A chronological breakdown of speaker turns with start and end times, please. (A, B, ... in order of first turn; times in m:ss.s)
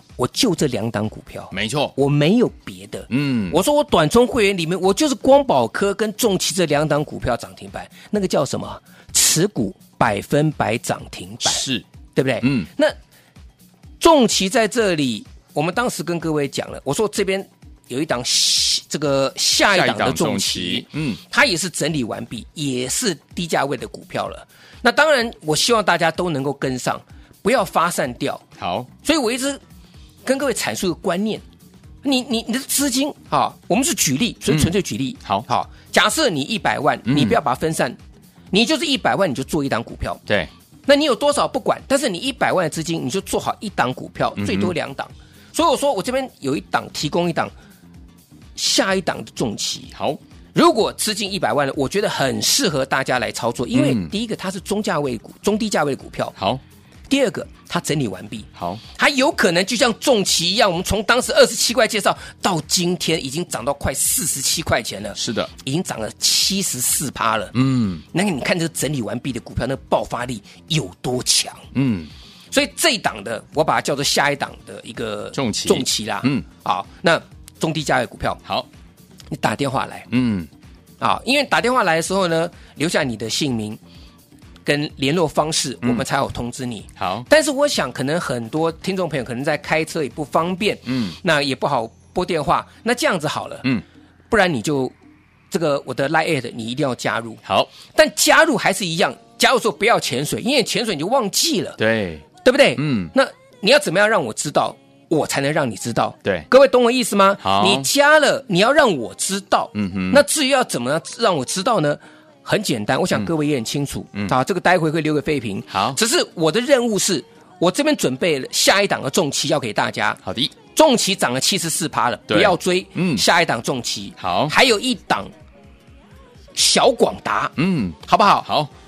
0:00.2-0:11.6 A
0:01.5-0:01.9 B
0:03.1-0:03.6 B
0:11.4-0:11.8 B
0:12.1-0:12.9 A
0:12.4-0:12.7 B
0:14.0-0:28.4 A
0:19.7-0:21.2 B
0:28.6-0:28.9 B
0:29.0-0:29.6 A
0:30.2-0:31.4 A
0:32.0-0:38.0 A
0:37.0-0:37.4 B
0:38.5-0:40.2 A
0:40.8-0:47.5 A
0:44.4-0:44.7 B
0:48.6-0:49.9 A
0:49.9-0:50.2 B
0:50.5-0:56.3 A
0:53.7-0:54.1 B
0:56.4-0:56.6 B
0:57.1-1:07.5 A
0:58.6-0:58.8 B
1:05.1-1:05.5 B
1:07.5-1:08.0 B
1:08.1-1:11.6 A
1:11.7-1:12.1 B
1:12.5-1:18.4 A
1:15.3-1:16.4 B
1:19.3-1:20.1 A
1:20.1-1:20.5 B
1:21.0-1:23.8 A
1:24.6-1:33.6 A
1:27.0-1:27.3 B
1:30.8-1:31.2 B
1:34.3-1:34.9 A
1:35.5-1:37.4 A
1:37.4-1:37.7 B
1:37.9-1:41.8 A
1:41.8-1:42.2 B
1:42.4-2:00.2 A
1:42.8-1:43.1 B
1:47.4-1:47.9 B
1:49.7-1:50.2 B
1:55.7-1:56.0 B
2:00.2-2:00.5 B
2:00.7-2:05.3 A
2:02.3-2:03.2 B
2:04.2-2:04.5 B
2:06.5-2:08.5 A
2:07.6-2:08.7 B